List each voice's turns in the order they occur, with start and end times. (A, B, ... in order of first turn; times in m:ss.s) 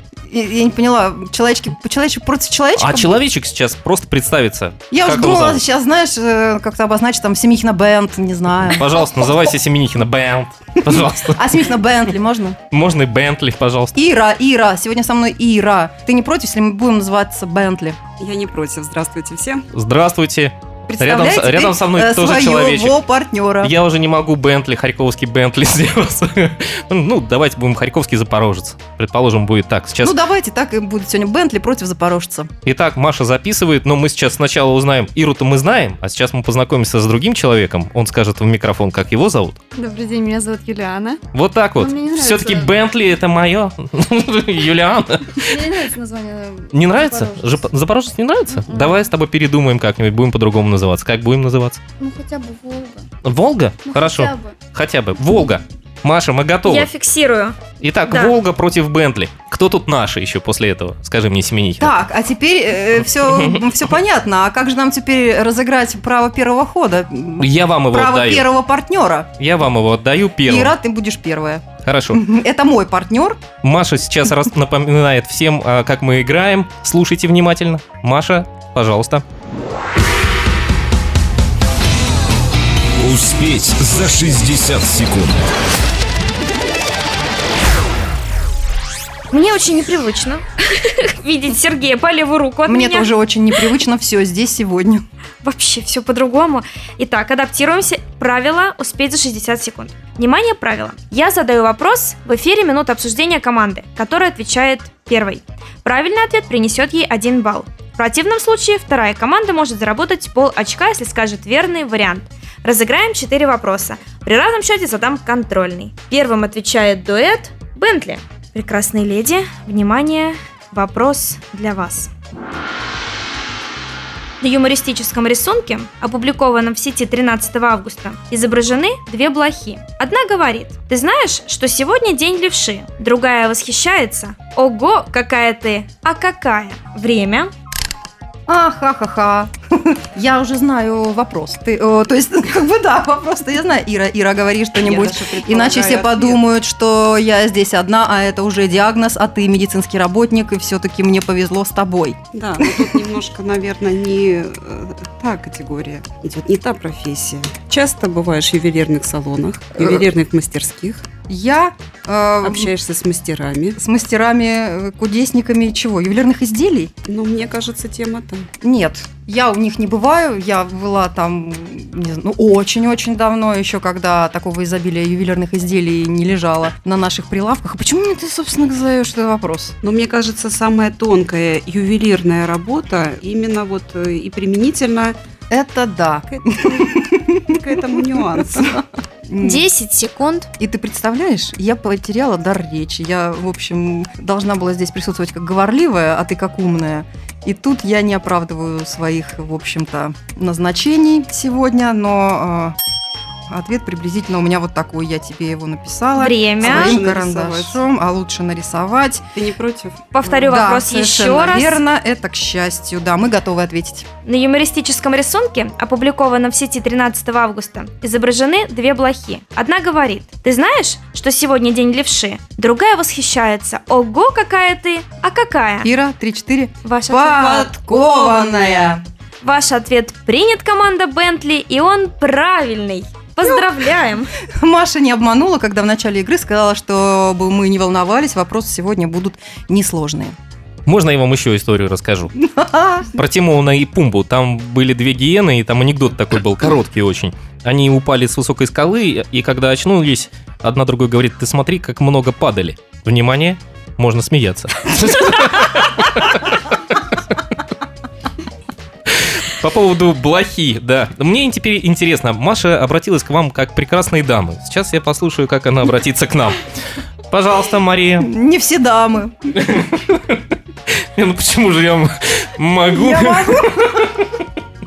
0:00.3-0:03.1 A
0:02.8-0:05.6 B
0:04.9-0:09.1 A
0:08.7-0:11.5 B
0:10.9-0:12.6 A
0:12.7-0:14.0 B
0:14.0-0:18.0 A
0:18.2-0:19.6 C
0:19.7-0:23.0 B
0:20.9-0:23.7 A
0:23.6-0:30.2 B
0:30.0-0:32.5 A
0:32.6-0:39.6 B
0:39.8-0:41.2 D
0:41.3-0:45.6 B
0:41.8-0:42.8 D
0:45.4-0:47.7 D
0:46.7-0:51.8 B
0:48.7-0:49.0 D
0:52.0-0:53.1 D
0:53.2-0:56.9 B
0:53.9-0:54.6 D
0:56.6-0:58.4 E
0:57.8-1:02.0 B
1:01.8-1:09.3 A
1:03.2-1:03.6 B
1:07.4-1:08.5 B
1:09.4-1:10.7 B
1:10.5-1:13.4 A
1:11.8-1:12.2 B
1:13.6-1:19.2 B
1:23.0-1:25.4 F
1:29.3-1:33.6 E
1:32.7-1:35.0 A
1:35.4-2:02.1 E
2:04.4-2:17.5 E
2:18.5-2:33.0 A
2:24.8-2:26.4 C
2:32.3-2:41.1 C
2:39.8-2:40.0 A
2:41.3-2:42.7 A
2:42.4-2:43.8 C
2:43.8-2:46.9 A
2:47.1-2:48.5 C
2:48.6-2:59.8 A
2:59.8-3:05.2 C
3:05.5-3:07.6 A
3:06.3-3:08.8 C
3:08.5-3:09.6 A
3:09.4-3:10.5 E
3:10.6-3:22.8 A
3:23.5-3:29.2 A
3:26.2-3:27.0 E
3:26.6-3:27.8 C
3:29.4-3:30.1 C
3:30.1-3:31.8 E
3:30.2-3:34.1 A
3:34.2-3:45.9 E
3:45.8-3:49.0 A
3:46.8-3:48.3 E
3:49.4-3:54.3 E
3:54.6-4:00.4 A
4:00.9-4:02.4 B
4:02.4-4:03.1 A
4:03.1-4:16.6 B
4:19.1-4:26.6 B
4:27.3-4:28.3 B
4:28.2-4:29.4 A
4:29.5-4:30.4 B
4:31.2-4:34.4 B
4:32.9-4:34.0 A